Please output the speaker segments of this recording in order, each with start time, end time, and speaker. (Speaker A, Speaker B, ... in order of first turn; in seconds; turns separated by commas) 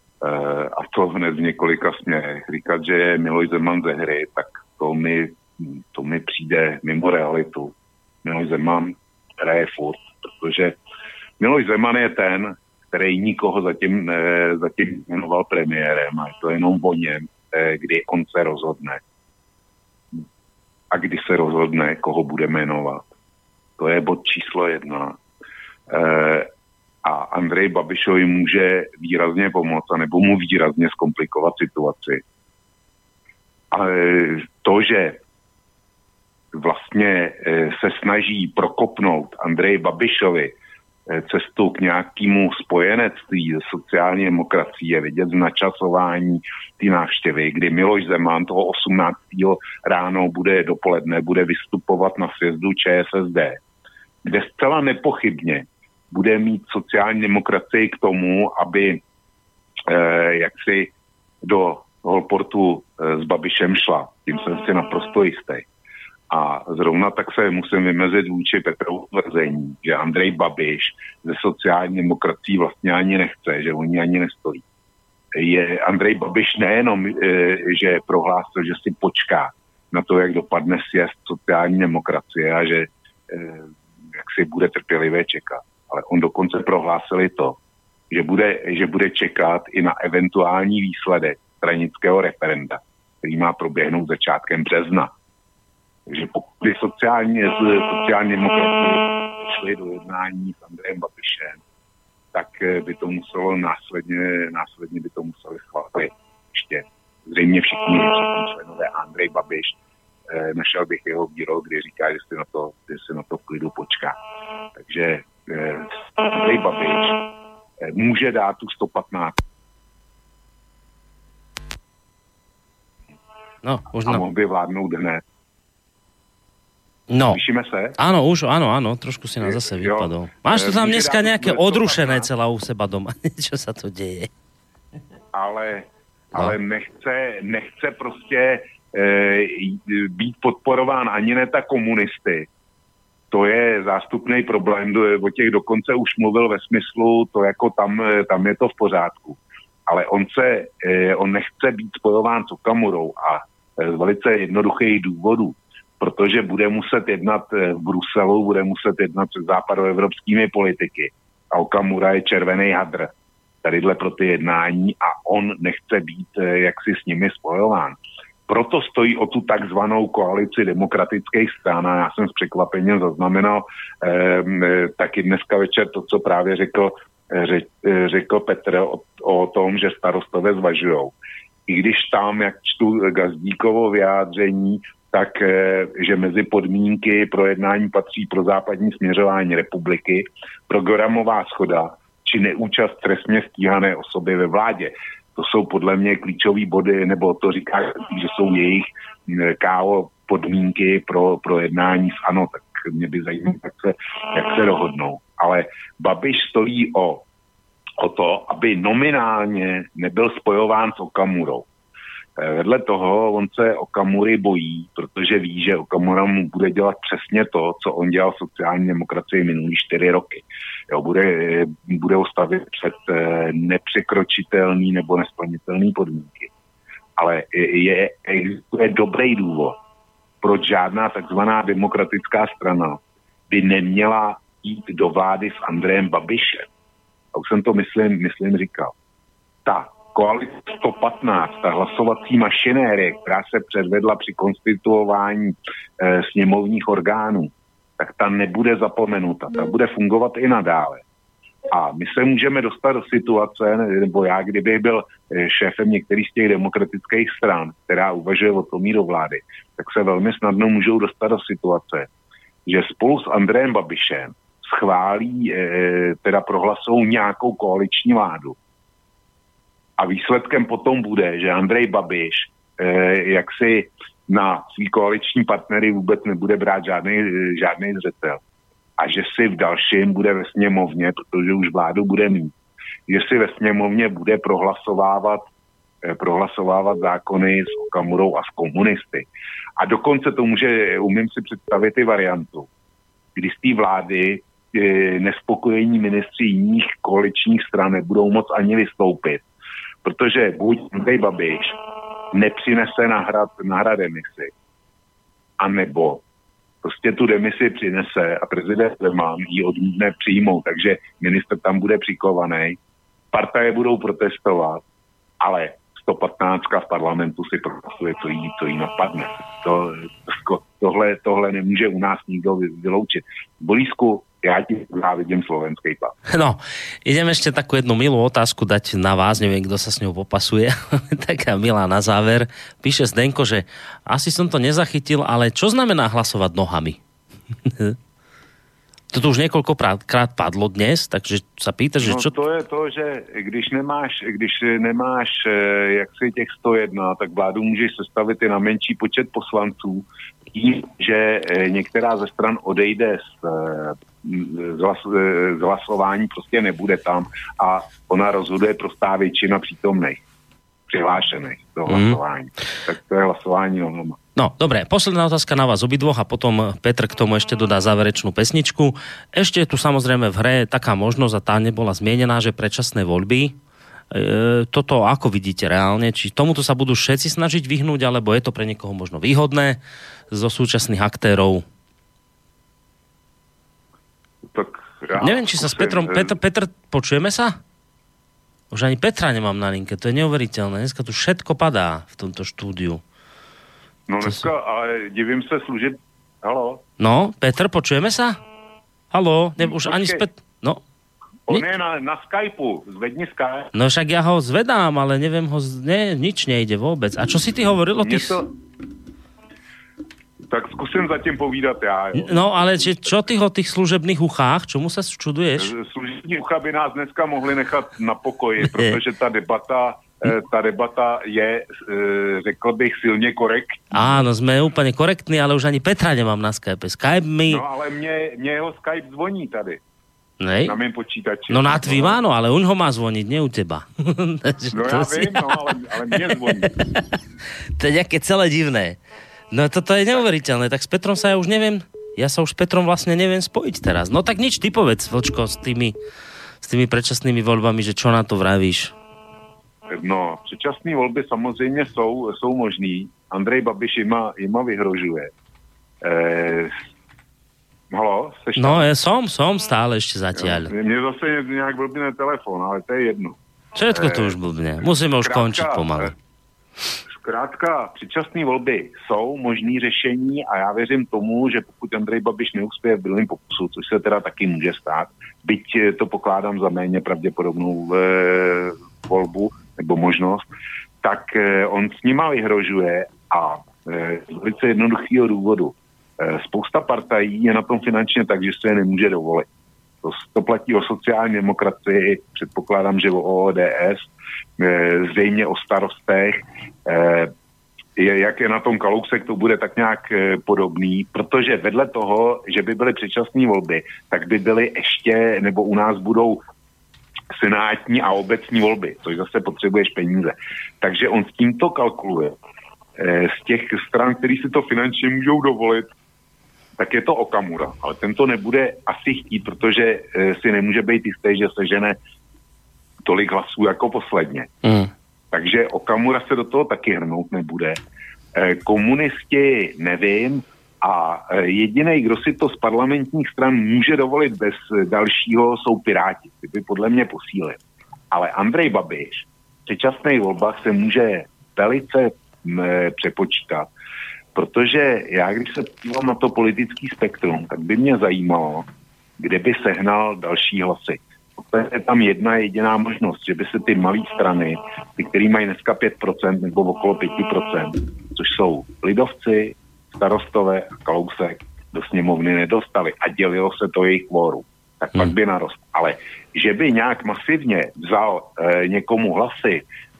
Speaker A: 0.2-5.4, Speaker A: 5.9-7.7, Speaker A: 8.2-10.7, Speaker A: 11.4-19.0, Speaker A: 20.9-23.0, Speaker A: 23.8-25.1, Speaker A: 25.9-26.5, Speaker A: 27.1-32.2, Speaker A: 33.7-35.2, Speaker A: 36.6-40.5, Speaker A: 41.1-53.6, Speaker A: 54.2-55.6, Speaker A: 56.1-59.0, Speaker A: 59.9-60.9, Speaker A: 61.5-65.6, Speaker A: 66.3-74.6, Speaker A: 75.4-83.6, Speaker A: 84.3-87.5, Speaker A: 88.1-95.1, Speaker A: 96.1-101.6, Speaker A: 102.3-109.7, Speaker A: 110.3-114.2, Speaker A: 114.9-117.2, Speaker A: 118.0-119.3, Speaker B: 123.6-124.2, Speaker A: 124.0-125.2, Speaker B: 127.1-127.4, Speaker A: 127.3-127.9, Speaker B: 128.0-134.3, Speaker A: 129.4-132.3, Speaker A: 135.3-142.4, Speaker A: 143.3-149.4, Speaker A: 149.9-163.1, Speaker A: 163.7-167.9, Speaker A: 168.5-181.1, Speaker A: 181.7-198.9, Speaker A: 199.6-207.2, Speaker A: 208.0-211.6, Speaker A: 212.4-220.4, Speaker A: 220.9-226.5, Speaker A: 227.2-229.7, Speaker A: 230.4-232.9, Speaker A: 233.5-236.6, Speaker A: 237.4-238.9, Speaker A: 239.7-245.5, Speaker A: 246.1-247.5, Speaker A: 248.0-251.0, Speaker A: 251.7-262.0, Speaker A: 262.7-268.5, Speaker A: 270.0-278.4, Speaker A: 279.0-282.5, Speaker A: 283.1-285.4, Speaker A: 286.2-289.2, Speaker A: 289.8-292.6, Speaker A: 293.4-294.4, Speaker A: 294.9-299.4, Speaker A: 300.1-301.7, Speaker A: 302.4-304.5, Speaker A: 305.6-306.2, Speaker A: 306.9-312.8, Speaker A: 313.4-314.8, Speaker A: 315.4-326.1, Speaker B: 326.3-337.0, Speaker B: 337.6-337.9, Speaker B: 339.1-342.3, Speaker A: 342.0-350.0, Speaker A: 350.6-360.1, Speaker A: 360.9-364.1, Speaker B: 361.9-362.2, Speaker B: 364.4-373.6, Speaker B: 374.1-379.8, Speaker B: 380.3-381.6, Speaker A: 384.6-386.4, Speaker B: 385.2-387.6, Speaker B: 388.7-393.0, Speaker A: 394.1-396.8, Speaker B: 394.2-394.5, Speaker B: 397.0-398.4, Speaker B: 399.1-400.8, Speaker A: 399.6-400.2, Speaker A: 401.5-403.7, Speaker B: 403.7-408.4, Speaker A: 408.0-408.4, Speaker A: 410.5-412.6, Speaker B: 412.1-415.7, Speaker A: 415.6-423.7, Speaker B: 418.6-419.0, Speaker B: 423.9-427.6, Speaker A: 427.5-429.8, Speaker B: 430.4-430.8, Speaker A: 430.6-432.2, Speaker B: 431.5-436.7, Speaker A: 434.7-436.8, Speaker B: 437.8-439.0, Speaker B: 439.5-445.9, Speaker B: 446.6-448.9, Speaker A: 450.0-455.3, Speaker A: 456.1-456.6, Speaker A: 457.9-458.9, Speaker B: 458.6-460.7, Speaker A: 460.4-463.3, Speaker B: 463.8-466.1, Speaker A: 463.9-464.4, Speaker A: 465.2-466.1, Speaker A: 467.2-480.4, Speaker A: 481.0-485.7, Speaker A: 486.3-489.4, Speaker A: 490.1-494.0, Speaker A: 494.6-496.4, Speaker A: 496.9-497.3, Speaker A: 498.0-506.4, Speaker A: 507.4-512.3, Speaker A: 513.0-515.8, Speaker A: 516.8-521.9, Speaker A: 523.1-524.5, Speaker B: 524.6-524.9, Speaker A: 525.3-527.7, Speaker A: 528.6-537.6, Speaker A: 538.1-543.7, Speaker A: 544.4-548.6, Speaker A: 549.2-569.6